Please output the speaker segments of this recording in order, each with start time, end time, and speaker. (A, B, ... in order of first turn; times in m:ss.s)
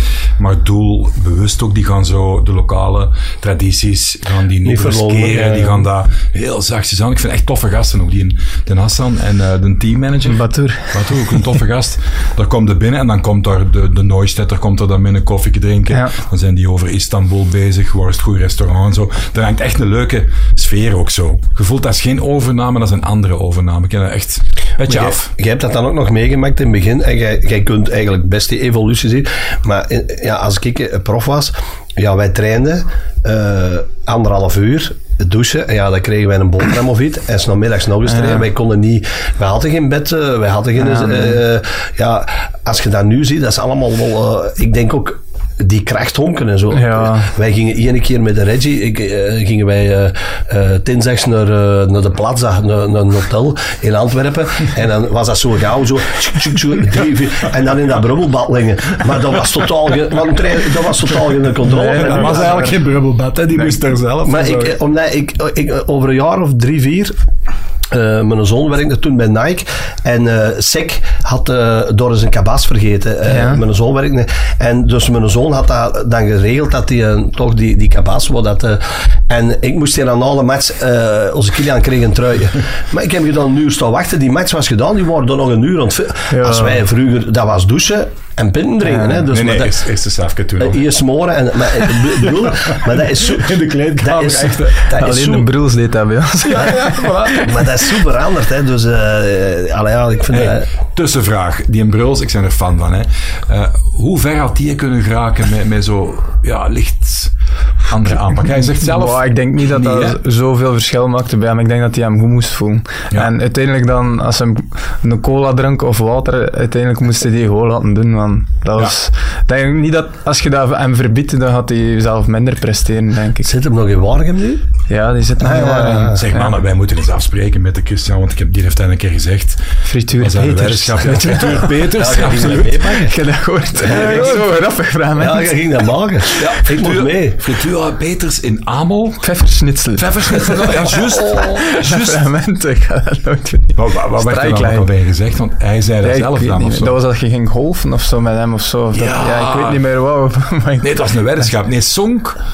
0:00.4-0:25.3 A
0:04.6-0:05.9 B
0:10.3-0:11.4 C
0:24.9-1:02.7 B
0:38.1-0:38.5 C
0:40.8-0:41.4 C
0:46.7-0:47.3 C
1:01.6-1:02.7 C
1:01.8-1:04.8 A
1:03.5-1:07.2 B
1:07.9-1:29.8 B
1:13.3-1:13.6 C
1:26.3-1:26.8 C
1:28.8-1:29.3 C
1:29.3-1:30.8 A
1:30.6-1:35.5 B
1:31.8-1:34.8 A
1:34.9-1:37.4 C
1:36.4-1:37.4 A
1:37.2-1:40.7 B
1:40.3-1:47.3 A
1:47.9-1:50.2 A
1:48.5-2:03.5 C
2:03.4-2:04.6 B
2:04.9-2:06.5 C
2:05.4-2:06.3 B
2:06.2-2:09.6 A
2:09.8-2:11.7 C
2:10.2-2:13.1 A
2:11.3-2:13.1 B
2:12.8-2:15.5 C
2:13.8-2:14.5 A
2:13.8-2:14.4 B
2:15.2-2:17.4 B
2:16.4-2:19.4 A
2:19.2-2:24.9 C
2:19.9-2:22.2 A
2:21.1-2:21.4 B
2:23.8-2:26.9 A
2:26.0-2:31.5 C
2:28.9-2:29.8 A
2:30.8-2:32.4 A